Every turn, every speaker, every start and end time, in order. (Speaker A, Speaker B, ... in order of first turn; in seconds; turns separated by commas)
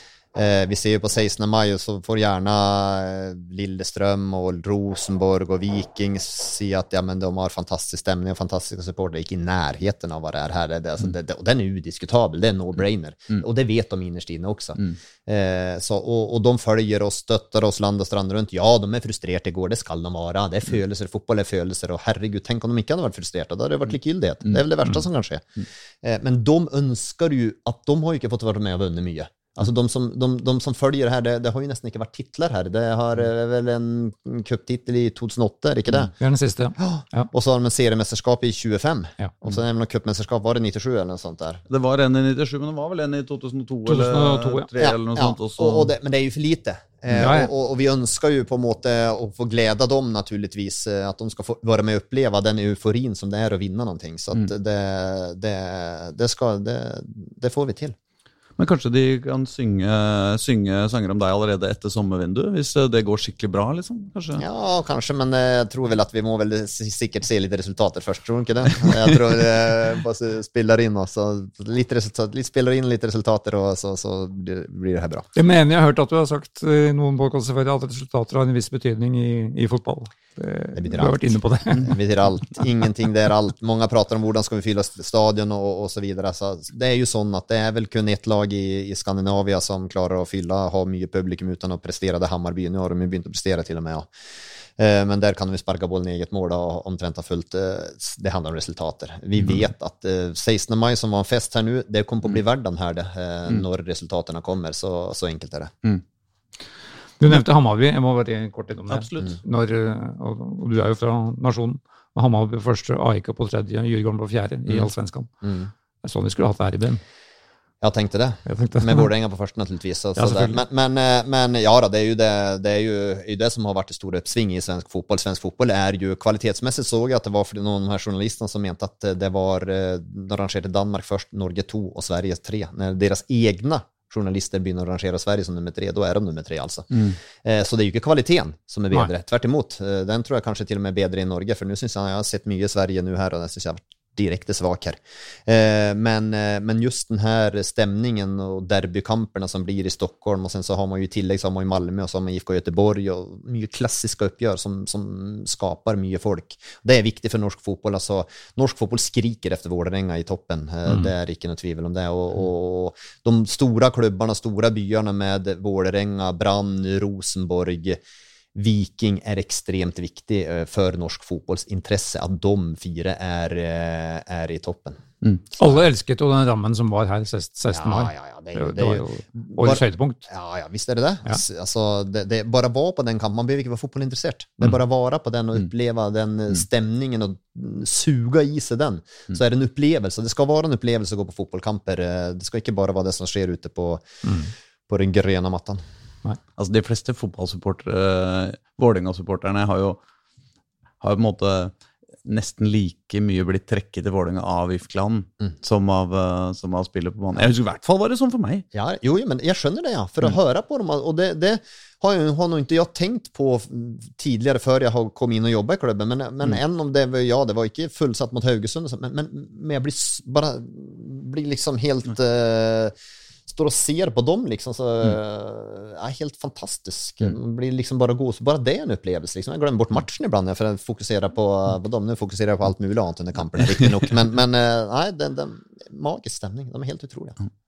Speaker A: 0.3-36.1, Speaker B: 36.2-37.3, Speaker A: 36.8-41.6, Speaker C: 41.7-45.9, Speaker B: 43.9-44.7, Speaker A: 44.8-58.0, Speaker B: 47.1-47.5, Speaker C: 58.6-64.4, Speaker A: 64.4-75.3, Speaker B: 75.3-81.9, Speaker A: 80.7-81.2, Speaker A: 81.7-94.1, Speaker A: 94.8-105.7, Speaker B: 107.2-115.3, Speaker C: 108.9-109.4, Speaker A: 115.4-115.7, Speaker B: 116.0-117.0, Speaker A: 117.8-168.0, Speaker B: 118.5-119.1, Speaker B: 120.2-120.6, Speaker C: 136.9-137.2, Speaker A: 168.5-175.8, Speaker B: 175.6-180.2, Speaker A: 177.7-194.0, Speaker B: 194.2-194.5, Speaker A: 194.9-195.8, Speaker C: 196.6-200.0, Speaker C: 201.0-201.7, Speaker C: 202.2-208.7, Speaker A: 208.7-222.9, Speaker A: 223.5-237.4